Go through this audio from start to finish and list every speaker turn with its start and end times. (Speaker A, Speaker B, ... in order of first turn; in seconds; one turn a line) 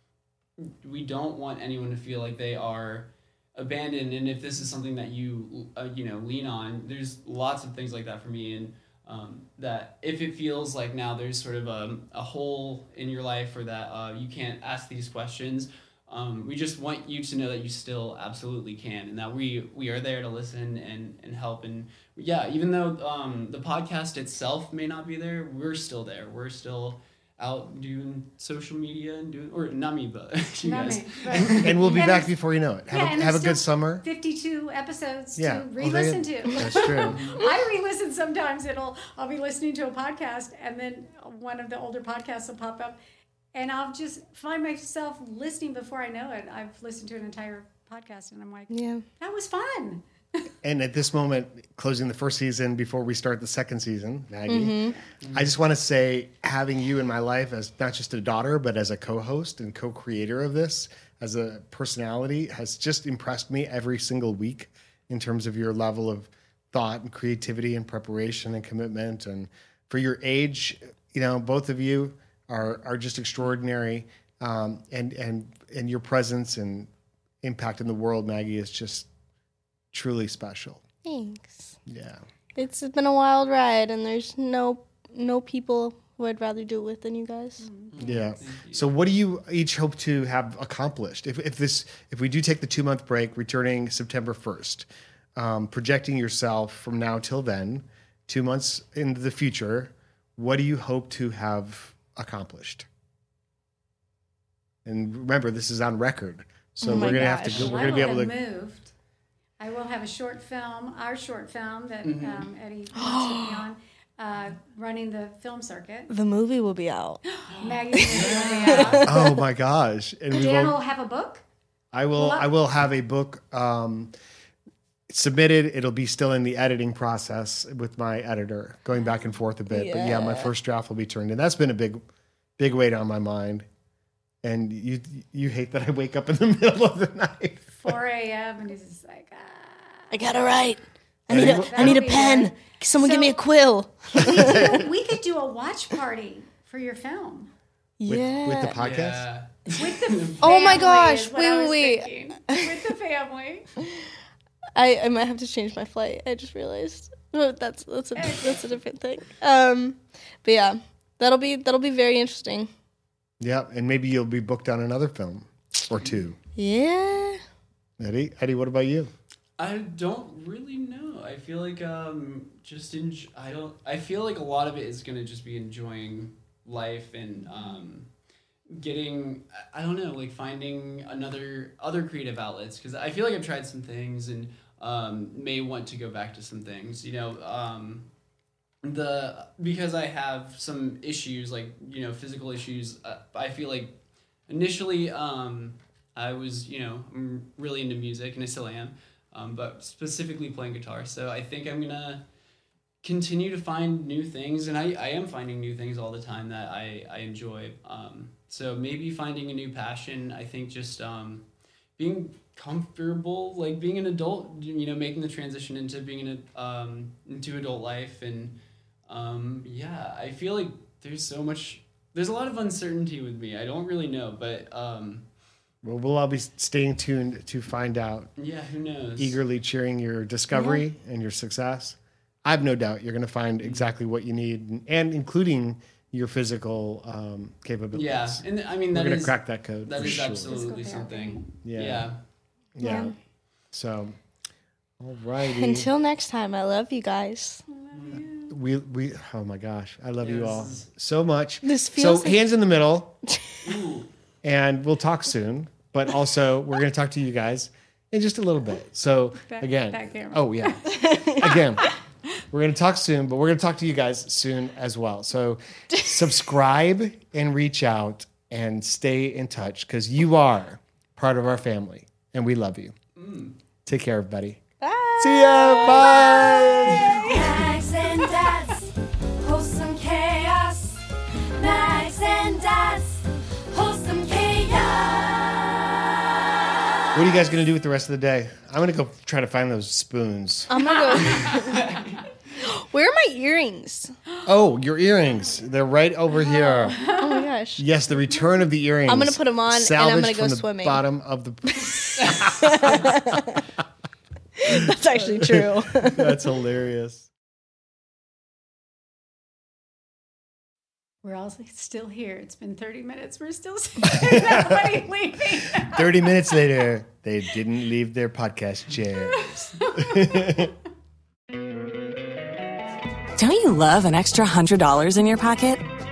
Speaker A: 0.6-31.8
Speaker B: 30.6-32.3
Speaker C: 31.5-34.0
Speaker B: 32.9-43.0
Speaker C: 35.4-37.2
Speaker A: 37.1-37.5
Speaker B: 43.5-50.0
Speaker D: 48.7-49.0
Speaker C: 50.6-76.9
Speaker D: 54.5-54.9
Speaker A: 55.2-55.6
Speaker C: 77.4-79.1
Speaker C: 79.9-80.8
Speaker D: 81.0-81.8
Speaker C: 81.9-82.2
Speaker D: 82.6-87.7
Speaker B: 87.6-88.3
Speaker A: 87.9-88.9
Speaker C: 88.0-102.9
Speaker C: 104.8-108.3
Speaker D: 106.8-107.9
Speaker B: 107.0-108.9
Speaker B: 109.6-116.1
Speaker A: 112.0-112.5
Speaker D: 113.0-113.6
Speaker D: 116.1-117.2
Speaker B: 117.3-119.1
Speaker A: 117.5-119.1
Speaker D: 117.9-119.3
Speaker C: 119.0-120.8
Speaker B: 120.3-121.4
Speaker C: 121.9-124.1
Speaker B: 122.2-122.5
Speaker C: 125.1-132.0
Speaker D: 129.7-130.5
Speaker C: 132.6-133.7
Speaker C: 134.4-137.9
Speaker B: 137.7-140.2
Speaker D: 140.1-144.9
Speaker C: 141.3-142.4
Speaker B: 141.3-143.4
Speaker B: 144.2-147.5
Speaker D: 148.0-148.8
Speaker C: 148.1-149.3
Speaker A: 148.8-150.8
Speaker B: 149.8-153.7
Speaker D: 150.4-152.8
Speaker D: 154.8-162.7
Speaker B: 158.2-158.8
Speaker C: 163.4-166.4
Speaker A: 166.0-166.2
Speaker D: 166.6-167.4
Speaker C: 168.0-169.1
Speaker A: 169.6-178.1
Speaker B: 177.5-177.9
Speaker A: 178.7-188.1
Speaker A: 188.8-194.0
Speaker A: 194.5-202.2
Speaker A: 203.0-211.5
Speaker A: 212.0-218.6
Speaker A: 219.1-225.2
Speaker C: 225.8-228.3
Speaker A: 228.4-229.4
Speaker C: 229.2-240.6
Speaker D: 230.5-230.8
Speaker A: 233.6-233.9
Speaker A: 237.9-242.2
Speaker B: 239.9-241.4
Speaker C: 241.6-242.1
Speaker C: 242.8-243.2
Speaker D: 242.8-243.1
Speaker C: 243.7-244.2
Speaker C: 245.0-245.9
Speaker D: 245.4-247.6
Speaker B: 247.7-248.5
Speaker A: 247.9-248.2
Speaker C: 248.5-253.2
Speaker A: 250.2-250.9
Speaker D: 251.6-252.4
Speaker A: 253.6-254.1
Speaker C: 254.4-261.9
Speaker B: 259.5-261.9
Speaker D: 260.9-261.6
Speaker C: 262.5-272.9
Speaker A: 273.2-273.6
Speaker C: 273.9-274.6
Speaker D: 274.8-277.4
Speaker C: 275.2-277.2
Speaker E: 277.3-287.4
Speaker C: 287.1-291.3
Speaker D: 290.7-291.8
Speaker A: 291.5-292.2
Speaker D: 292.6-294.2
Speaker C: 294.4-297.0
Speaker B: 296.5-297.4
Speaker D: 297.1-297.9
Speaker C: 297.8-303.6
Speaker D: 299.1-301.0
Speaker D: 301.7-303.6
Speaker A: 302.2-302.5
Speaker D: 304.6-306.4
Speaker C: 304.7-307.3
Speaker B: 311.2-316.7
Speaker C: 314.2-314.8
Speaker C: 315.8-320.7
Speaker B: 319.2-320.6
Speaker F: 323.4-325.8